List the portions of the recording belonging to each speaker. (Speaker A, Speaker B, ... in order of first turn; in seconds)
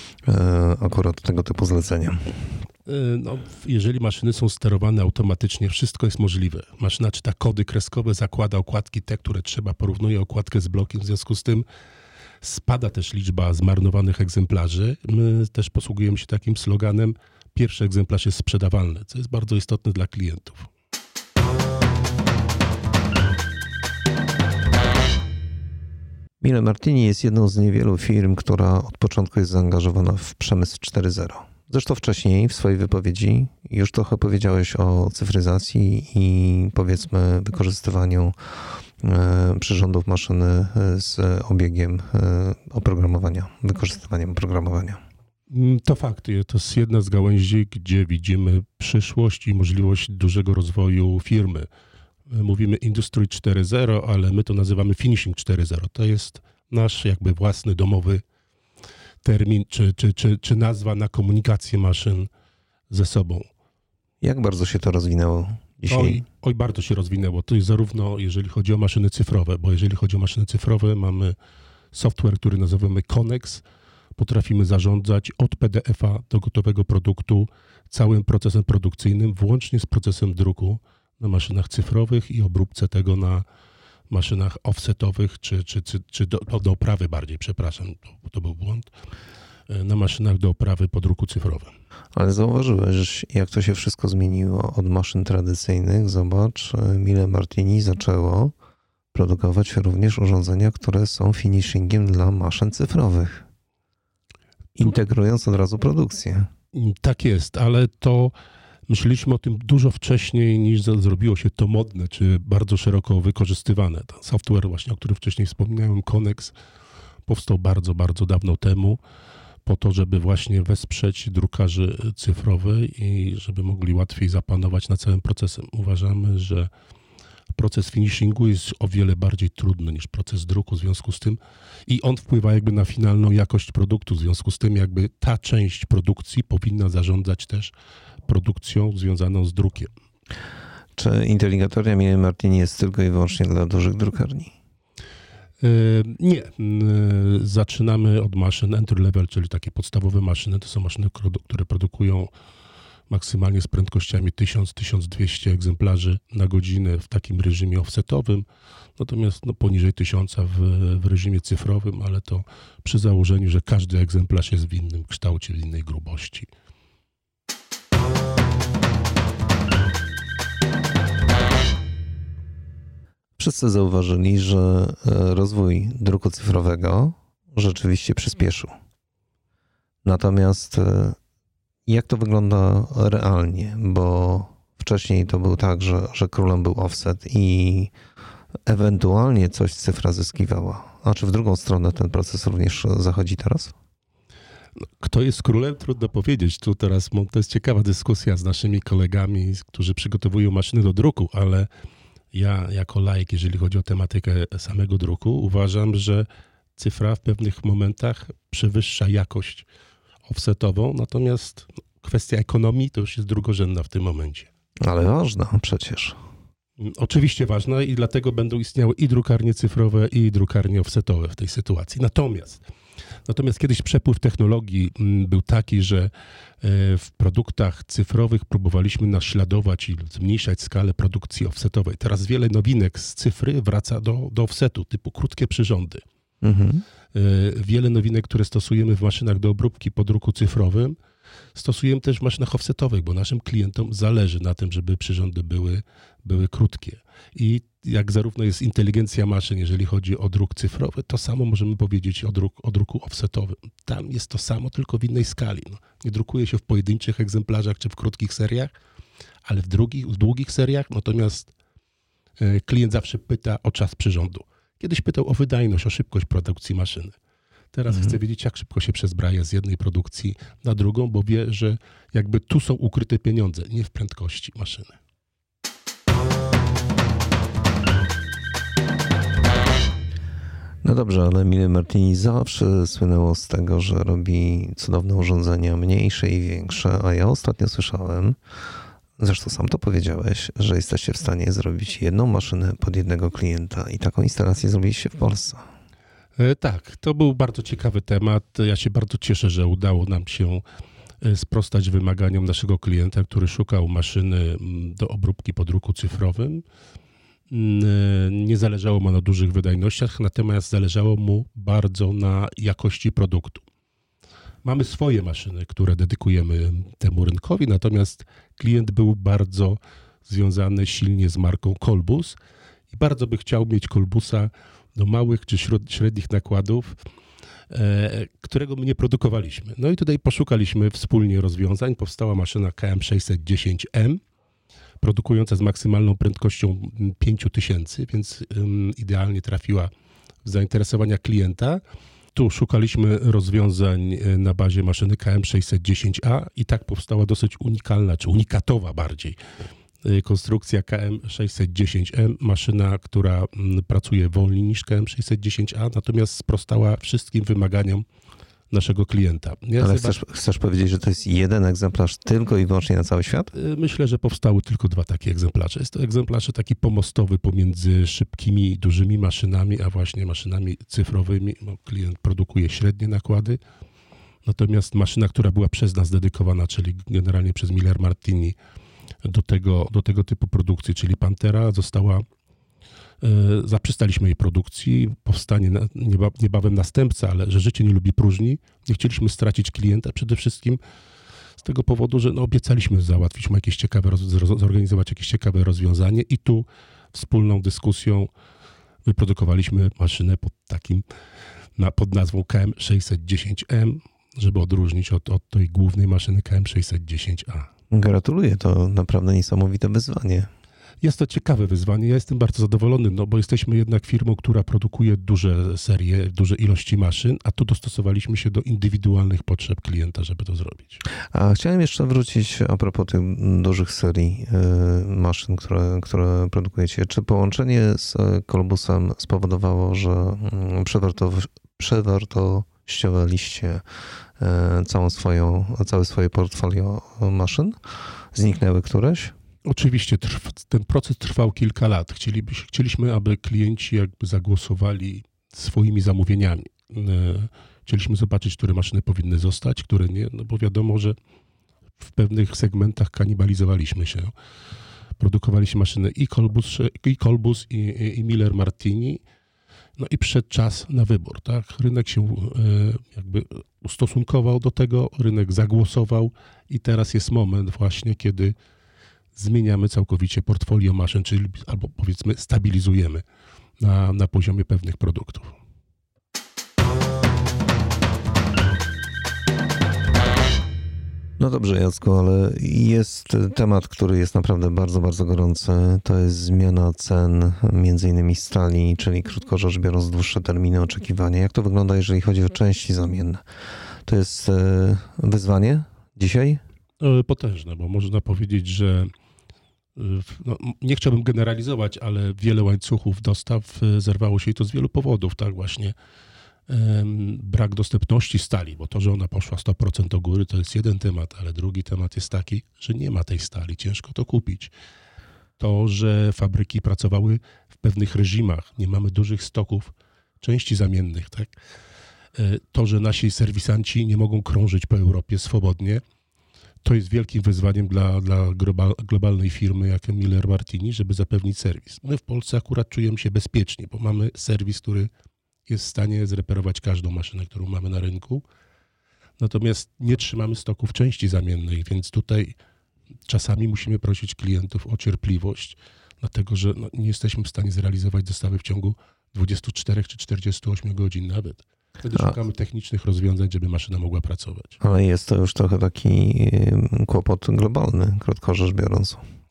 Speaker A: 0.3-2.3, 26.4-38.4, 39.0-45.0, 64.2-66.2, 92.1-98.5, 99.1-103.4, 104.8-106.5, 141.0-144.5, 173.4-178.7, 180.1-181.2, 181.9-187.9, 188.7-193.7, 214.8-216.2, 236.4-236.8, 267.9-268.2, 280.8-288.4, 289.2-295.6, 359.8-363.5, 407.9-410.5, 421.3-433.8, 434.4-437.8, 438.3-439.3, 481.4-493.4, 494.1-496.6, 554.8-559.2
Speaker B: 2.9-11.7, 12.4-20.7, 45.5-51.7, 52.3-58.2, 59.2-62.3, 62.9-63.5, 65.9-71.4, 71.9-73.6, 74.2-83.4, 84.1-88.9, 89.7-91.7, 106.7-108.3, 108.9-116.5, 117.3-119.0, 119.7-126.7, 127.6-137.7, 138.3-139.9, 145.6-152.3, 153.1-158.4, 159.0-166.5, 195.0-201.7, 202.3-209.7, 210.3-214.5, 216.8-222.6, 223.3-236.0, 237.1-240.9, 241.6-258.7, 259.4-261.5, 262.4-267.2, 267.7-275.0, 296.4-300.6, 301.2-306.6, 307.5-313.6, 314.6-322.4, 322.9-327.0, 327.7-334.2, 335.0-339.9, 340.4-341.8, 342.3-349.4, 350.0-358.0, 358.7-360.2, 363.5-373.6, 374.4-378.6, 379.2-382.2, 383.2-390.8, 391.6-398.3, 399.1-401.0, 401.8-407.7, 411.0-421.0, 439.6-451.1, 452.0-454.3, 455.2-459.2, 460.0-468.5, 469.4-473.2, 473.8-475.6, 497.0-499.1, 500.0-505.9, 506.7-514.7, 515.6-521.5, 522.4-526.0, 526.8-535.1, 535.7-538.4, 539.4-542.5, 543.3-554.8